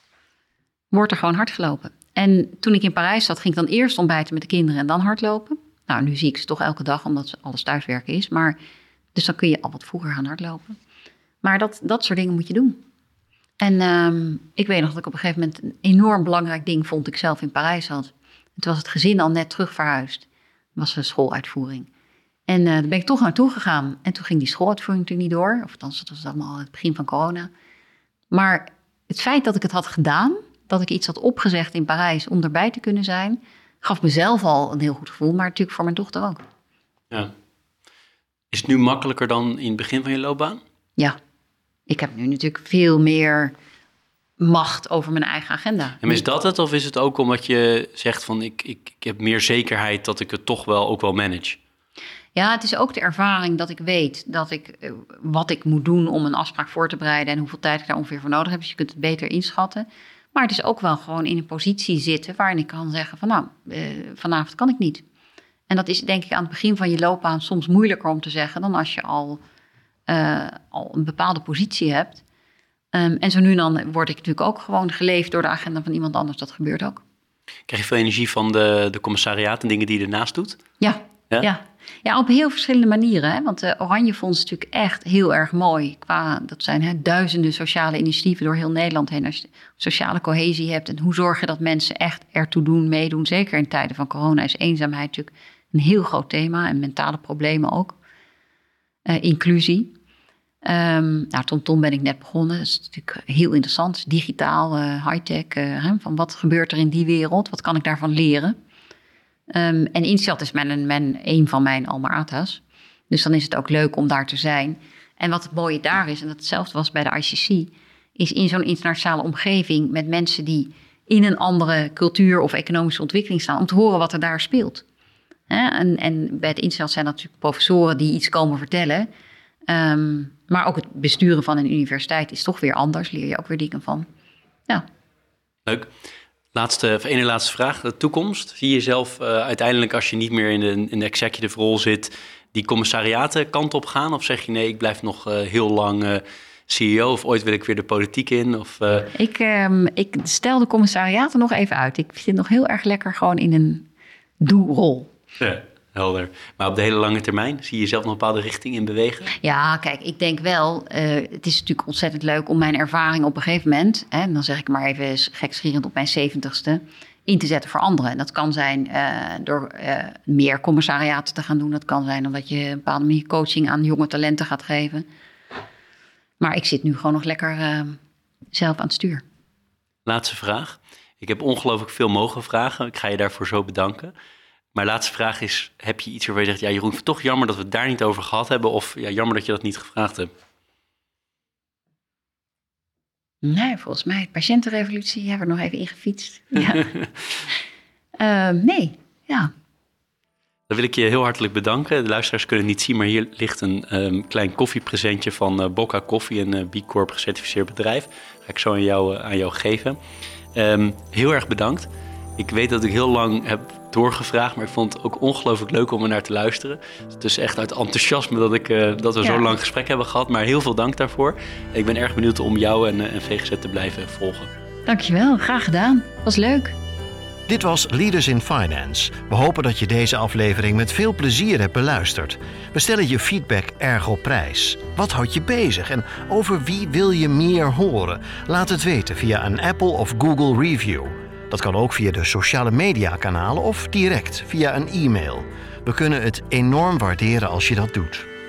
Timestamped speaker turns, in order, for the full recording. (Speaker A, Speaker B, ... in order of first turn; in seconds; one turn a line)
Speaker A: 0.9-8.6
Speaker A: 9.1-10.8
Speaker A: 11.4-12.8
Speaker A: 13.6-21.9
Speaker A: 22.5-27.5
Speaker A: 28.3-36.4
Speaker B: 38.5-40.6
Speaker A: 41.9-43.5
Speaker A: 44.4-46.2
Speaker B: 46.0-51.6
Speaker A: 52.3-65.0
Speaker A: 65.7-69.4
Speaker A: 70.1-72.2
Speaker A: 72.9-77.0
Speaker B: 77.7-80.6
Speaker A: 80.8-98.0
Speaker A: 99.0-99.9
Speaker A: 100.6-108.5
Speaker A: 109.5-124.8
Speaker A: 125.5-129.1
Speaker A: 129.7-134.1
Speaker B: 136.5-149.1
Speaker A: 149.1-153.9
Speaker A: 154.4-155.1
Speaker B: 155.4-159.3
Speaker A: 159.3-175.1
Speaker A: 176.4-178.0
Speaker A: 178.5-179.2
Speaker B: 180.1-184.1
Speaker B: 184.7-190.3
Speaker A: 193.4-196.8
Speaker B: 196.6-197.1
Speaker A: 198.2-199.5
Speaker B: 200.7-210.0
Speaker B: 210.5-211.9
Speaker B: 212.4-224.5
Speaker A: 219.2-219.5
Speaker A: 224.8-226.7
Speaker C: 227.5-248.3